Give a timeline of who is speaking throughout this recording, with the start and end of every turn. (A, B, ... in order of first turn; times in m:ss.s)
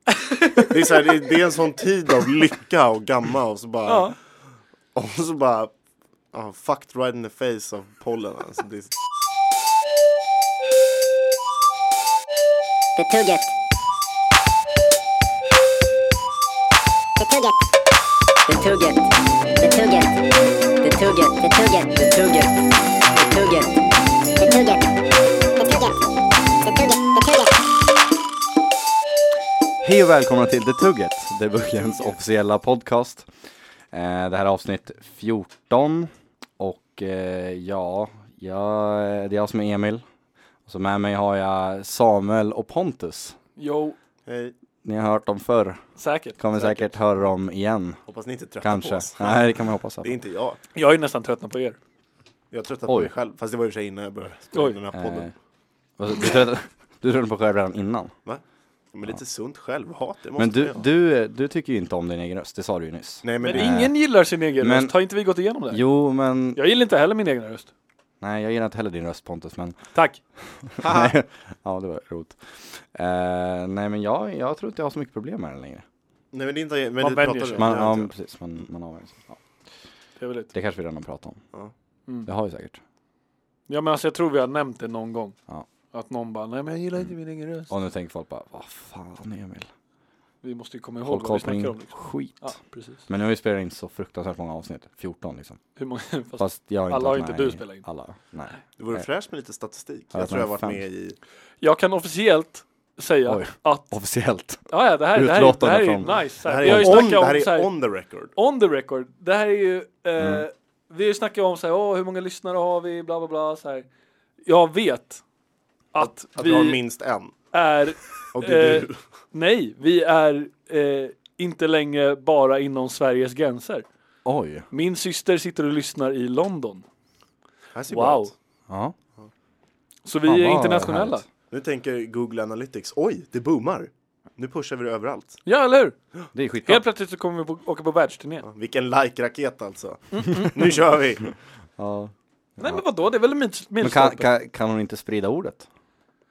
0:00.5-0:04.1 A
0:03.8-0:04.1 B
0:04.9-0:05.7 A
0:06.3-0:08.9 A
0:13.0-0:13.5 C
0:17.2-0:17.6 C
0:18.5-0:20.2 C
0:20.8-0:22.6 C
0:23.1-0:23.8 C
0:24.4-0:24.9 C
0:25.6-0:26.0 C
0:26.6-0:27.5 C
0:29.8-0:33.3 D
0:33.9-0:40.0 D
0:40.7-0:43.4 D
0:43.6-0:44.0 B
0:44.2-0:44.5 A
0:44.8-0:45.8 D
0:46.0-0:46.8 B
0:46.4-0:48.0 D
0:48.0-0:49.4 A
0:48.6-0:50.1 D
0:50.0-0:50.6 A
0:50.7-0:51.8 B
0:52.5-0:55.3 A
0:52.9-0:53.1 D
0:54.9-0:55.3 D
0:56.0-0:58.1 D
0:58.9-1:00.8 A
1:00.4-1:03.9 D
1:03.2-1:03.8 A
1:03.4-1:05.8 B
1:04.6-1:04.9 D
1:05.7-1:06.6 D
1:06.5-1:07.7 B
1:08.2-1:09.8 D
1:10.4-1:15.8 D
1:10.8-1:11.1 A
1:16.3-1:18.1 A
1:17.0-1:17.7 B
1:17.6-1:19.4 D
1:20.2-1:20.5 B
1:20.5-1:21.4 D
1:22.2-1:22.8 D
1:23.7-1:25.4 B
1:25.9-1:27.7 B
1:27.7-1:29.7 D
1:30.4-1:33.0 B
1:31.0-1:32.5 D
1:33.1-1:35.6 D
1:35.8-1:37.8 B
1:36.4-1:39.0 D
1:38.8-1:41.2 A
1:40.1-1:40.8 D
1:41.6-1:43.9 B
1:43.2-1:47.0 D
1:44.7-1:47.7 B
1:46.4-1:48.3 A
1:48.3-1:53.9 B
1:50.2-1:50.4 D
1:54.4-1:55.2 B
1:55.9-1:56.8 B
1:56.0-1:57.3 A
1:57.5-2:03.8 B
1:58.3-1:59.0 A
2:04.2-2:04.6 D
2:04.7-2:06.8 B
2:07.7-2:08.3 A
2:07.9-2:08.3 B
2:08.7-2:09.0 D
2:10.0-2:11.2 B
2:10.2-2:11.2 D
2:11.5-2:15.4 A
2:15.4-2:16.0 B
2:16.3-2:16.8 D
2:16.6-2:18.4 B
2:18.4-2:21.3 A
2:21.8-2:22.8 D
2:22.6-2:24.3 B
2:23.8-2:25.7 D